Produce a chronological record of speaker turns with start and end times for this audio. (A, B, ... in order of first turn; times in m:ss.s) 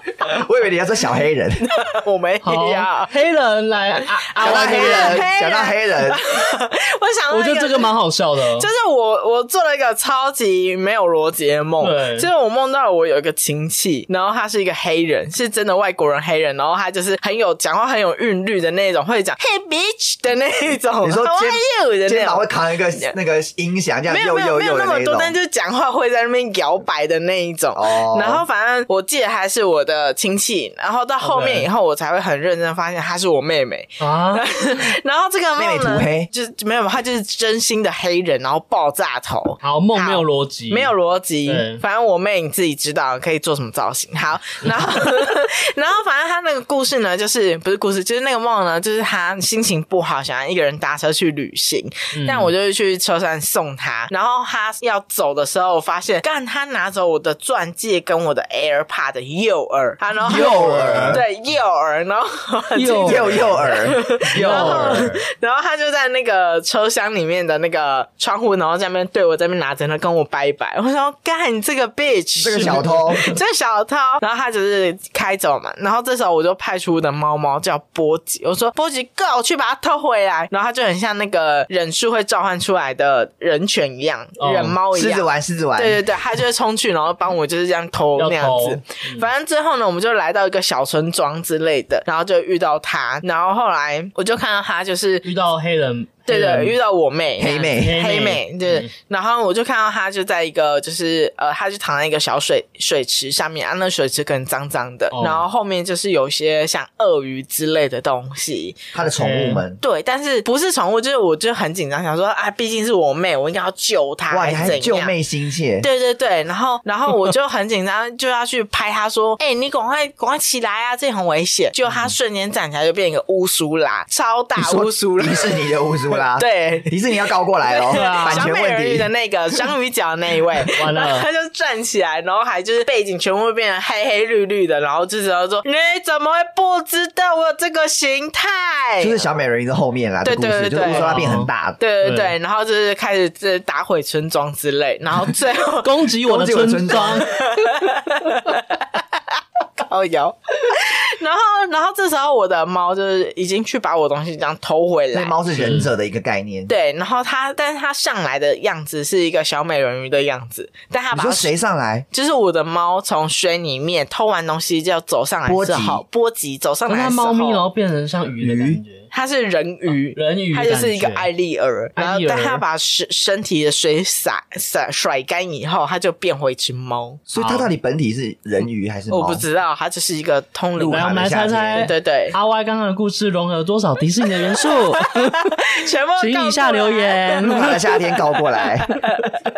0:00.2-0:01.8 A
0:01.7-0:03.1 B
0:02.4-0:05.3 C
0:04.3-0:08.0 B
0:04.4-0:06.2 A
0:07.3-0:08.7 C
0:08.6-0:22.5 B
0:11.8-0:12.3 C
0:21.0-0:25.4 A
0:24.1-1:35.3 B
0:27.8-0:28.5 A
0:31.2-0:31.7 C
0:34.0-0:34.5 C
0:35.6-0:36.3 A
0:39.6-0:40.9 C
0:41.5-0:41.8 C
0:52.1-0:52.5 C
1:00.2-1:01.2 A
1:00.3-1:01.2 C
1:02.8-1:03.8 C
1:03.0-1:05.1 A
1:04.3-1:05.2 C
1:12.4-1:13.2 A
1:12.5-1:13.4 C
1:24.4-1:24.8 C
1:24.9-1:26.0 A
1:28.2-1:29.3 C
1:35.2-1:36.8 C
1:36.3-1:48.8 B
1:37.4-1:38.0 A
1:37.7-1:38.9 C
1:45.1-1:45.5 C
1:48.9-1:49.8 A
1:49.2-1:49.6 C
1:49.8-1:55.2 B
1:54.3-1:55.9 A
1:55.8-2:19.2 B
2:04.6-2:09.1 A
2:07.9-2:08.5 C
2:10.8-2:11.3 C
2:19.0-2:21.8 A
2:20.2-2:21.2 B
2:20.9-2:21.5 C
2:21.8-2:26.0 B
2:22.0-2:22.3 C
2:25.8-2:27.4 C
2:26.2-2:27.3 A
2:27.3-2:35.4 B
2:35.1-2:36.7 A
2:35.5-2:35.9 C
2:36.7-2:41.5 B
2:41.1-2:42.1 A
2:42.1-2:47.6 B
2:45.5-2:46.0 A
2:46.9-2:49.1 C
2:48.4-2:48.8 A
2:49.1-2:57.2 B
2:50.1-2:51.3 C
2:52.0-2:52.6 C
2:57.3-2:59.4 A
2:57.4-2:57.7 C
2:59.1-3:01.1 B
3:00.8-3:01.9 A
3:00.9-3:05.6 C
3:01.8-3:02.4 B
3:04.6-3:09.3 B
3:06.2-3:07.8 C
3:07.4-3:09.0 A